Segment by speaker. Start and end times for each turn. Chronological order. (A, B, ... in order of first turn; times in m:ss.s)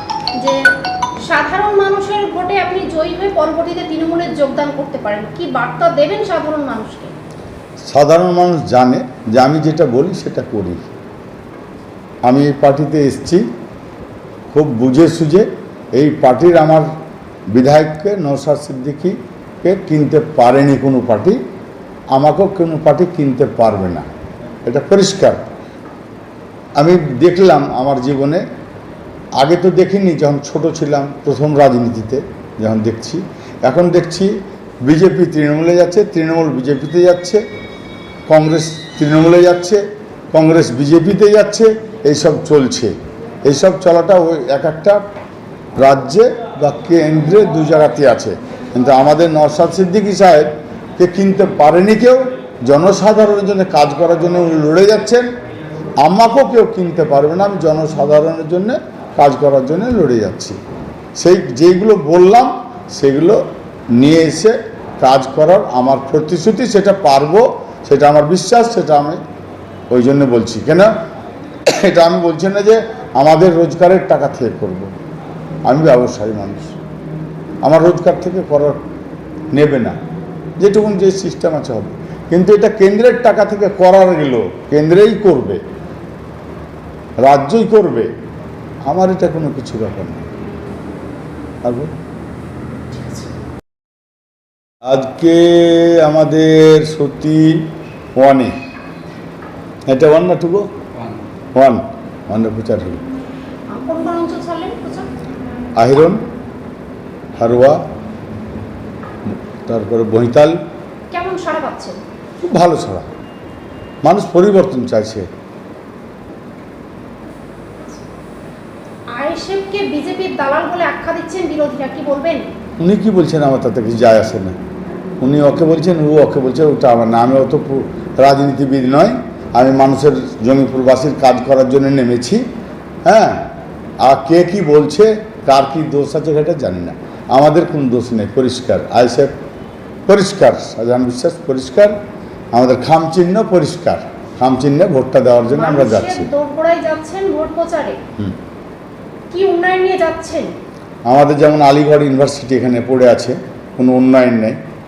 0:00.4-0:00.7 A
0:01.2-0:07.1 A
0:07.9-0:10.8 B
0:12.2-0:13.4 B
0:14.5-0:16.9 B
0:17.5-0:21.4 B
0:22.1-0:24.0 B
0:24.6-0:25.5 B
0:26.8-0:28.4 B
0:29.4-0:34.3 B
0:34.8-0:37.4 B
0:38.3-0:42.9 B
0:43.4-0:45.0 B
0:45.8-0:55.3 B
0:56.0-1:00.6 B
1:01.2-1:03.4 B
1:03.9-1:09.2 B
1:09.9-1:10.9 B
1:11.6-1:14.9 B
1:15.6-1:16.8 B
1:17.6-1:18.8 B
1:19.5-1:19.9 B
1:20.6-1:25.6 B
1:27.2-1:28.1 B
1:28.9-1:30.2 B
1:31.6-1:31.9 B
1:32.9-1:33.2 A
1:34.9-1:38.5 B
1:39.9-1:40.7 B
1:41.5-1:43.0 B
1:43.7-1:45.1 A
1:45.8-1:46.2 B
1:47.4-1:47.8 B
1:49.6-1:50.6 B
1:51.1-1:52.0 A
1:52.4-1:53.0 B
1:54.0-1:55.2 B
1:59.1-2:02.5 A
2:02.8-2:04.5 B
2:05.2-2:12.4 B
2:13.0-2:13.5 B
2:14.0-2:19.3 B
2:20.1-2:21.9 B
2:22.5-2:26.3 B
2:25.5-2:28.0 A
2:29.3-2:30.5 A
2:31.1-2:34.6 B